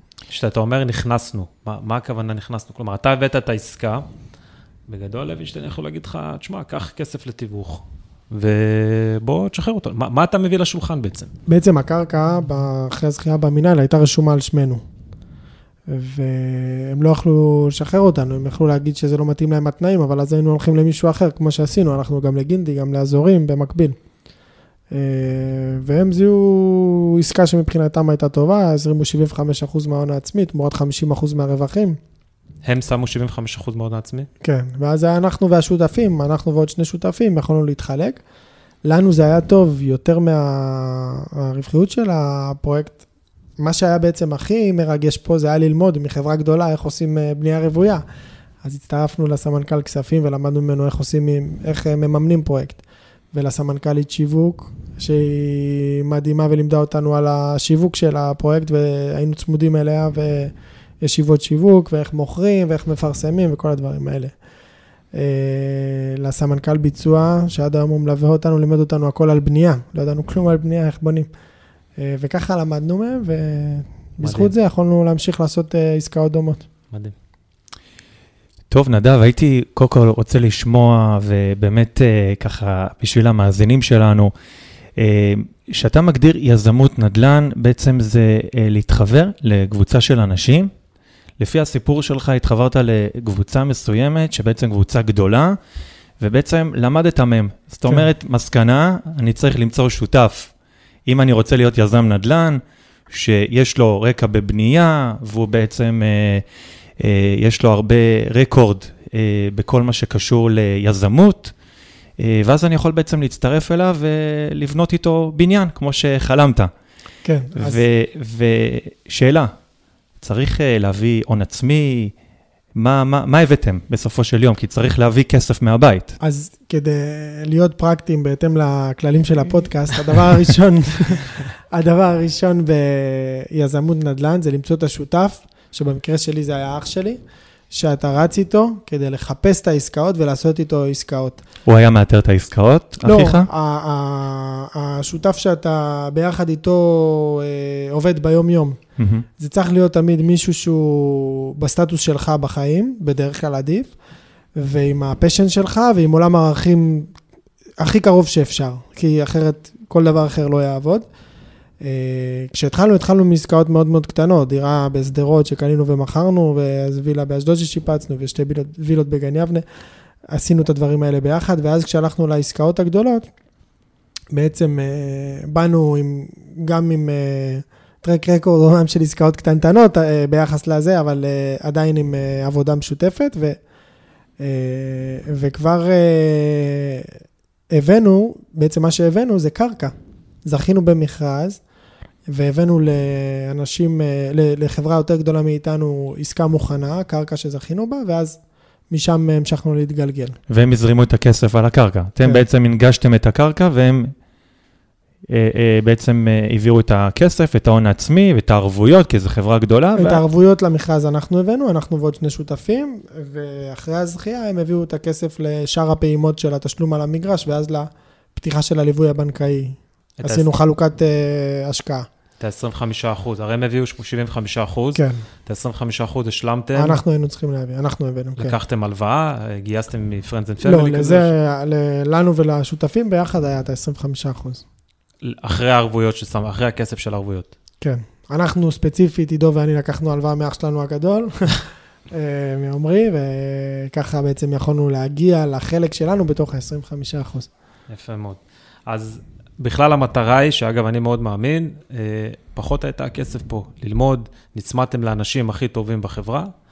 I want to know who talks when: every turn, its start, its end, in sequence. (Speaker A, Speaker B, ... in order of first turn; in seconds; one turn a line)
Speaker A: 0.3-4.0
Speaker A: 4.9-11.3
Speaker B: 11.5-14.8
Speaker B: 15.9-23.9
Speaker B: 24.9-32.0
Speaker A: 32.6-34.3
Speaker B: 34.4-38.2
Speaker B: 38.8-43.0
Speaker B: 43.6-48.0
Speaker B: 48.6-52.8
Speaker B: 53.3-64.3
Speaker B: 65.1-71.3
Speaker B: 72.0-76.7
Speaker A: 74.2-74.5
Speaker C: 78.7-84.3
Speaker C: 85.0-90.7
Speaker C: 91.4-95.6
Speaker C: 96.2-100.5
Speaker C: 101.1-106.4
Speaker C: 107.0-111.5
Speaker C: 112.2-116.7
Speaker B: 117.2-117.8
Speaker C: 117.5-119.5
Speaker C: 120.2-122.1
Speaker C: 122.7-126.2
Speaker B: 126.2-141.4
Speaker C: 141.7-143.5
Speaker B: 143.0-148.8
Speaker C: 149.0-149.2
Speaker B: 149.4-153.9
Speaker B: 154.6-157.1
Speaker B: 157.8-161.1
Speaker B: 161.8-169.6
Speaker B: 170.3-173.3
Speaker B: 174.3-183.6
Speaker B: 184.4-187.1
Speaker B: 187.7-189.9
Speaker B: 190.4-191.6
Speaker B: 192.3-198.4
Speaker B: 198.9-200.3
Speaker C: 200.5-204.1
Speaker C: 205.3-210.2
Speaker B: 209.9-222.1
Speaker A: 220.2-220.4
Speaker A: 222.4-227.0
Speaker B: 224.9-225.2
Speaker B: 226.8-228.5
Speaker A: 228.4-231.3
Speaker B: 230.6-234.6
Speaker A: 235.2-237.5
Speaker B: 237.8-247.5
Speaker A: 247.9-256.5